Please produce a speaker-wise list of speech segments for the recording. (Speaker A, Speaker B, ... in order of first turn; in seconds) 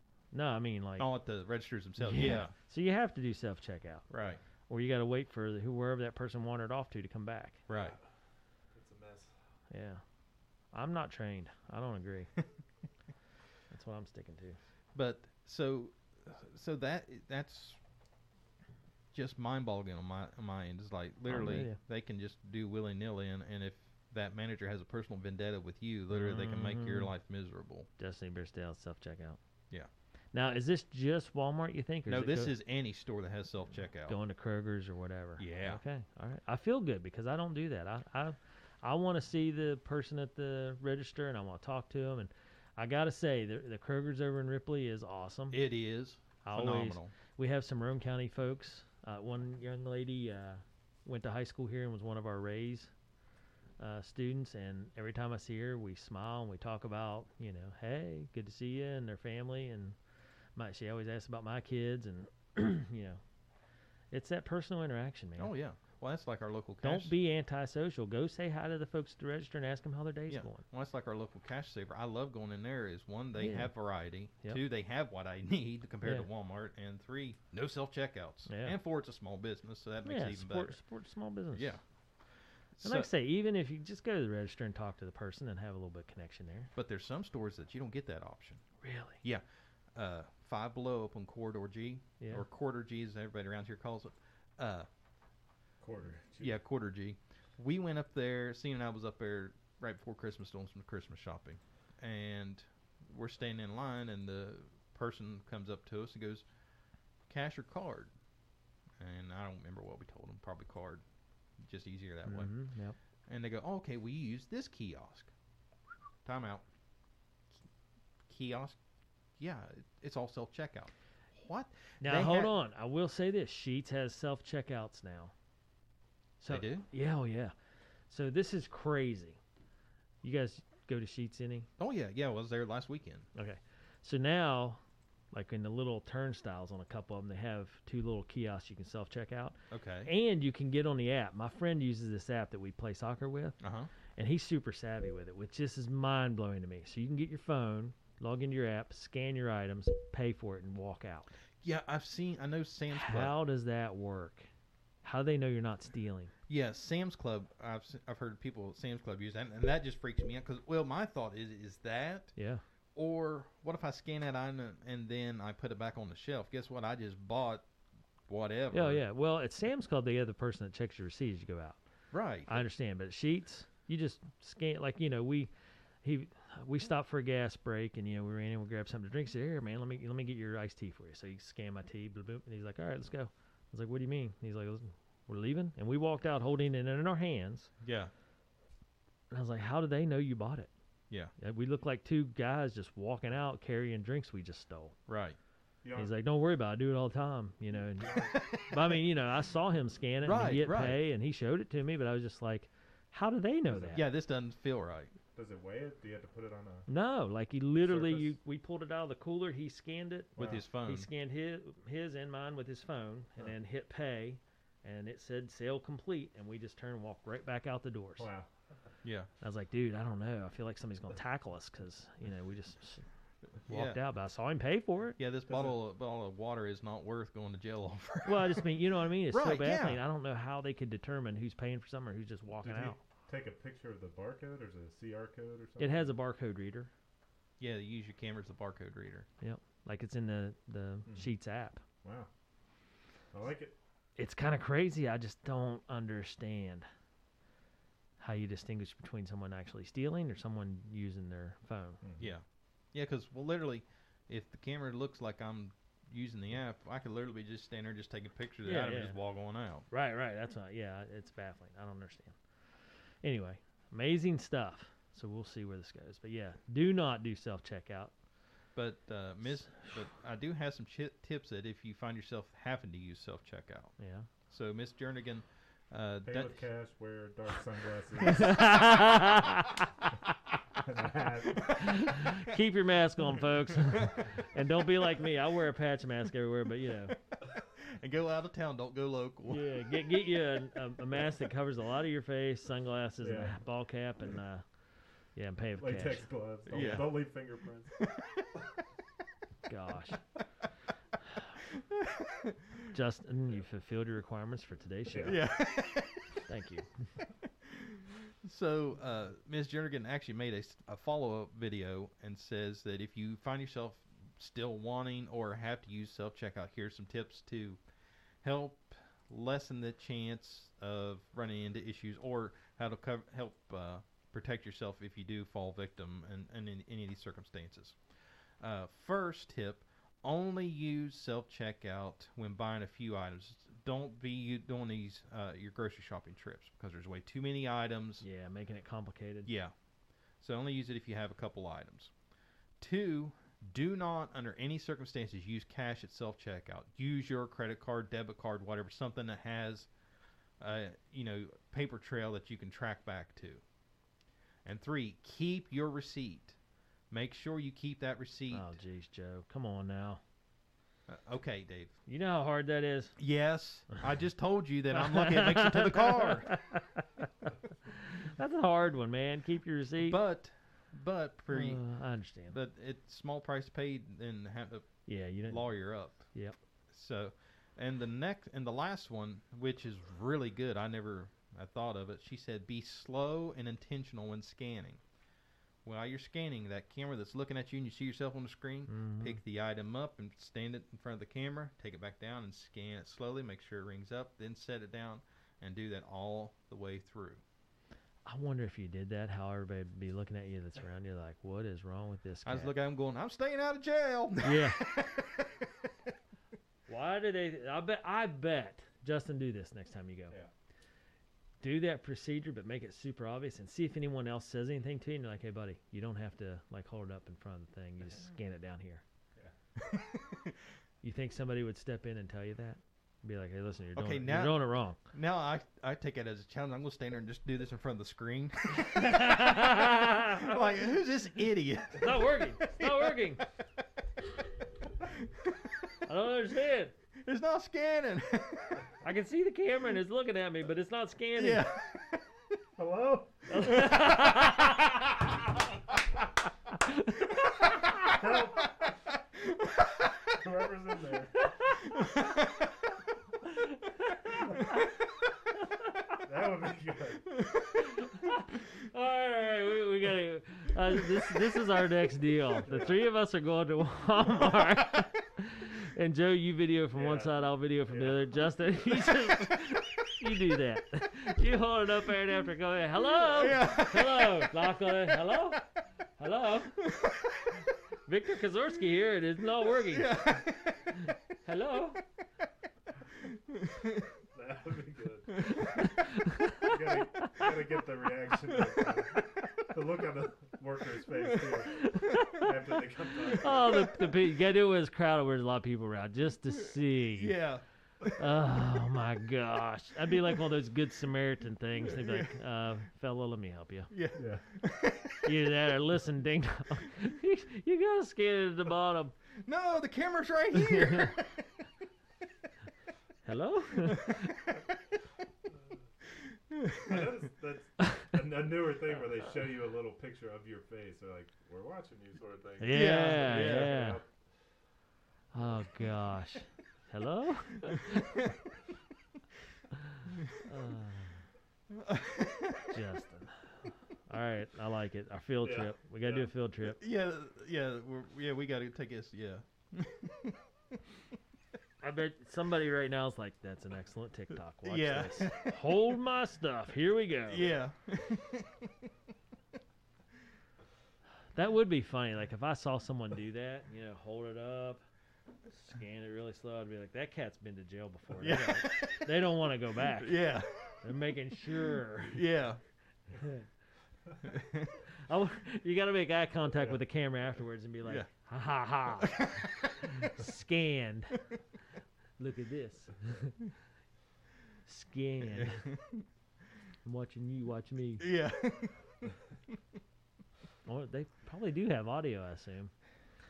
Speaker A: 0.3-1.1, 2.0-4.1, 4.7-7.6, 9.7-10.0, 10.7-12.3, 13.7-14.6, 21.3-21.8, 26.1-27.1, 28.0-29.4, 30.3-32.5, 34.1-45.6, 46.4-52.9, 53.8-60.0, 60.5-63.2, 64.1-65.5, 66.8-70.6, 73.4-73.7, 78.5-78.7, 80.0-81.7, 82.8-86.7, 88.8-89.2, 112.2-113.0, 122.0-125.3, 126.4-127.5, 128.1-129.4, 130.2-131.7, 133.3-134.8, 135.3-143.6, 144.2-151.3, 152.9-154.5, 155.0-156.3, 162.3-162.6, 168.7-171.8, 172.5-175.5, 176.0-187.7, 189.3-190.7, 191.4-194.9, 195.9-204.0, 206.9-218.3, 219.4-223.0, 223.7-225.2, 228.2-233.0, 235.8-236.9, 239.4-241.8, 244.2-246.9, 248.2-252.0, 258.6-259.2, 259.9-262.4, 263.2-268.1, 269.6-270.0, 274.0-274.3, 278.2-279.9, 281.6-287.1, 289.5-294.6, 295.3-296.2, 299.7-300.2, 302.9-305.4, 306.5-306.9, 338.2-339.5, 358.5-360.2, 362.1-363.2, 364.9-370.2, 371.5-372.6, 375.1-376.5, 388.9-389.4, 398.2-402.7, 404.4-404.8, 406.9-410.4, 411.6-419.0, 421.0-425.0, 428.8-430.6, 431.9-433.4, 436.0-436.9, 439.0-441.6, 443.5-445.0, 457.9-475.6, 476.2-476.9, 478.1-480.2, 480.9-482.0, 485.8-486.7, 491.8-492.6, 493.2-497.3, 498.1-503.9, 505.2-509.1, 510.7-511.1, 513.2-514.4, 522.6-524.0, 525.3-528.3, 529.8-531.2, 532.7-533.5, 534.1-536.8, 541.8-547.5, 551.3-554.8, 555.5-560.2, 560.8-562.2, 563.1-563.5, 565.0-569.3, 569.8-571.2, 572.2-573.4, 574.6-575.7, 576.8-578.1, 580.6-582.7
Speaker B: 1.0-2.5, 4.1-4.4, 7.7-8.0, 14.9-17.8, 19.1-27.9, 32.1-34.1, 35.4-35.8, 45.5-47.1, 65.4-67.1, 70.3-80.8, 81.5-81.8, 82.7-83.1, 86.8-88.6, 89.2-94.9, 96.4-106.4, 107.3-108.1, 109.0-111.0, 111.6-112.5, 113.3-115.3, 116.2-116.6, 118.3-118.8, 119.4-122.5, 126.5-126.8, 131.8-133.3, 139.7-140.1, 143.6-143.9, 151.6-153.3, 156.5-162.3, 162.9-167.7, 168.3-169.0, 172.1-172.6, 187.8-188.1, 195.1-195.4, 198.2-198.9, 200.2-201.0, 203.9-205.1, 210.4-211.1, 219.0-219.3, 223.7-224.0, 225.2-228.7, 229.3-230.0, 237.6-239.3, 252.2-259.9, 268.7-273.9, 274.5-276.6, 283.8-284.1, 287.1-289.8, 296.7-297.2, 298.0-298.5, 301.7-302.8, 305.2-306.4, 307.6-317.8, 318.4-328.0, 328.6-338.2, 339.4-339.7, 340.4-342.1, 342.8-349.9, 350.6-353.6, 354.6-356.6, 357.1-358.8, 361.1-361.9, 363.2-366.6, 370.0-371.8, 372.5-376.3, 376.9-385.0, 385.8-397.4, 402.4-405.9, 419.8-420.6, 423.9-433.1, 435.2-435.9, 437.2-438.8, 441.4-442.2, 451.9-452.7, 469.1-469.6, 473.0-475.5, 476.8-477.7, 479.8-481.0, 483.4-484.0, 491.4-492.2, 496.6-498.1, 501.8-502.3, 503.9-505.4, 509.4-511.6, 513.9-514.6, 516.1-517.1, 522.7-523.8, 527.7-528.3, 530.1-530.4, 531.7-532.8, 536.7-540.4, 544.6-545.7, 547.3-548.9, 558.2-559.1, 559.9-560.9, 562.0-562.6, 564.2-564.8, 569.0-570.1, 575.2-576.0, 578.0-578.8
Speaker C: 8.7-9.3, 95.8-96.5, 195.8-196.1, 198.0-198.3, 203.7-204.0, 205.3-206.9, 207.8-208.3, 210.3-210.6, 218.2-218.5, 225.5-225.8, 232.6-236.1, 242.0-242.3, 243.3-243.7, 252.0-252.3, 276.2-278.6, 280.8-282.0, 293.2-293.6, 295.8-298.0, 305.1-305.4, 442.8-443.8, 448.0-448.8, 450.3-451.5, 456.2-457.3, 462.6-463.0, 466.9-467.3, 467.9-468.2, 484.3-485.9, 486.6-494.0, 504.1-504.4, 516.7-524.1, 535.4-536.3